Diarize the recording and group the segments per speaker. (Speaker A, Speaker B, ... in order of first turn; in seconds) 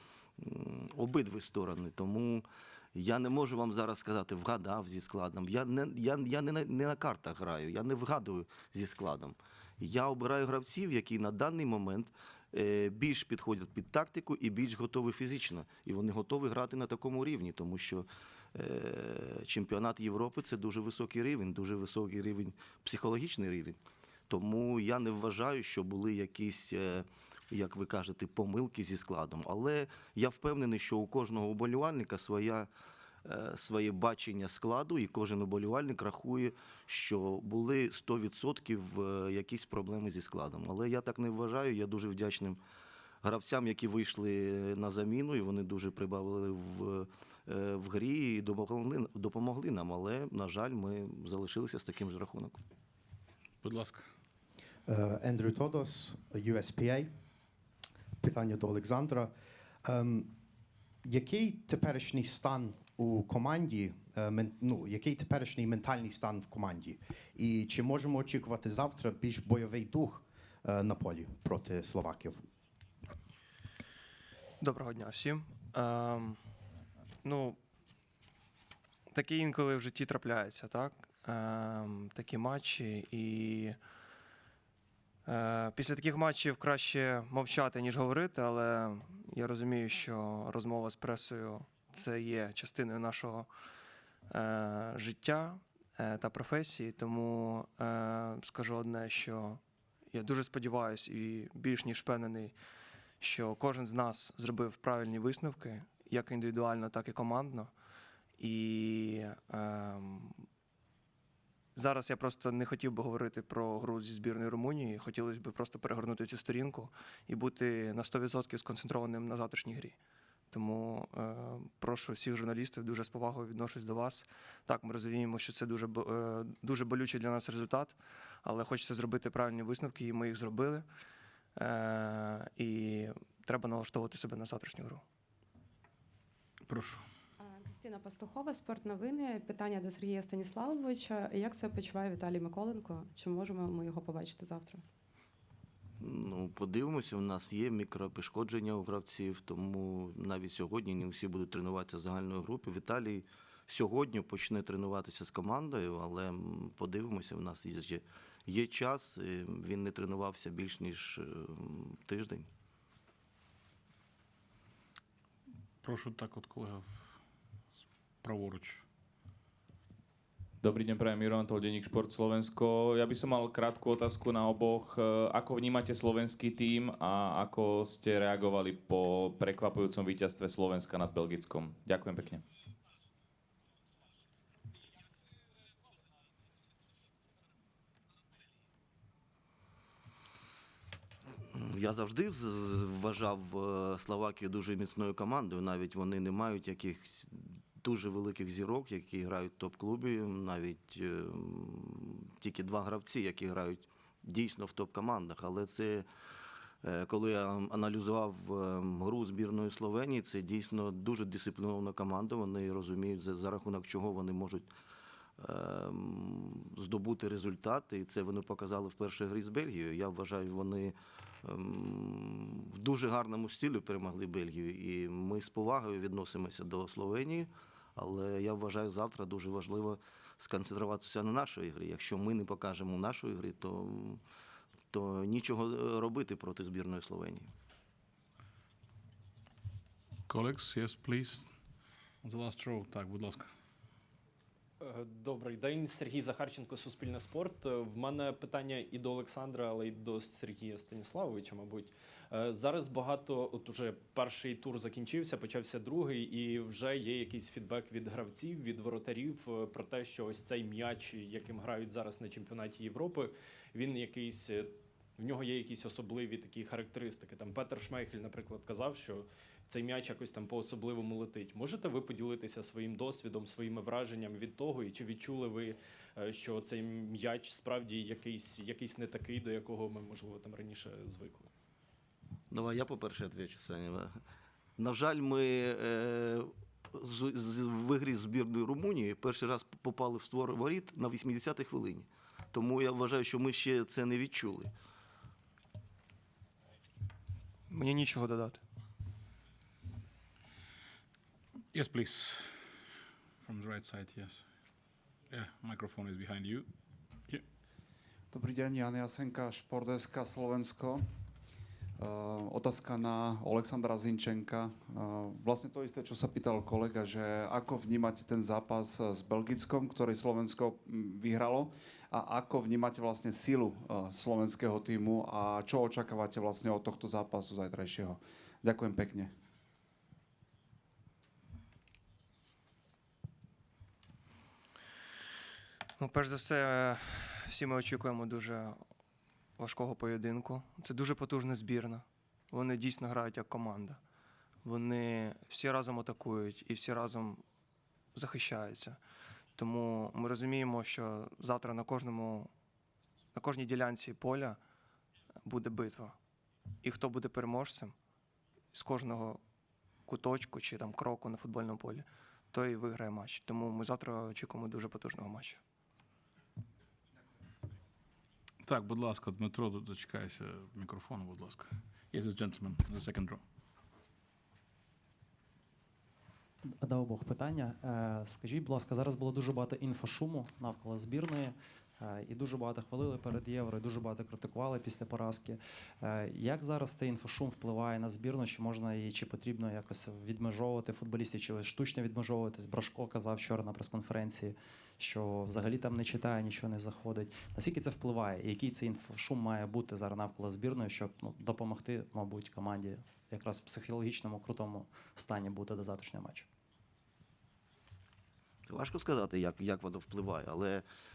Speaker A: 0.4-32.7, 33.2-42.6, 43.2-52.6, 146.0-162.5, 191.5-206.1, 206.8-214.7, 215.4-234.2, 234.9-237.5, 282.5-284.1, 284.8-294.7, 408.7-410.8
Speaker B: 53.6-54.1, 136.7-137.0, 165.8-167.1, 168.2-168.8, 240.3-241.5, 242.2-243.5, 301.7-302.8, 303.4-304.4, 305.3-306.7, 368.6-373.4
Speaker C: 54.9-57.1, 58.2-59.3, 59.8-60.3, 61.0-72.4
Speaker D: 74.6-76.4, 77.2-77.6, 79.1-83.8, 85.2-93.5, 94.3-99.6, 100.1-102.5, 103.2-107.7, 108.4-110.4, 111.7-119.9, 120.5-130.8, 131.6-135.0, 297.7-298.6, 336.0-338.8, 339.6-344.0, 344.6-347.4, 348.1-349.0, 349.6-352.5, 353.3-354.6, 355.4-356.1, 356.8-357.9, 358.7-359.4, 360.1-365.6
Speaker E: 137.4-144.8
Speaker F: 170.6-182.4
Speaker G: 244.8-281.5
Speaker H: 308.3-311.0, 312.0-329.3
Speaker I: 376.8-406.5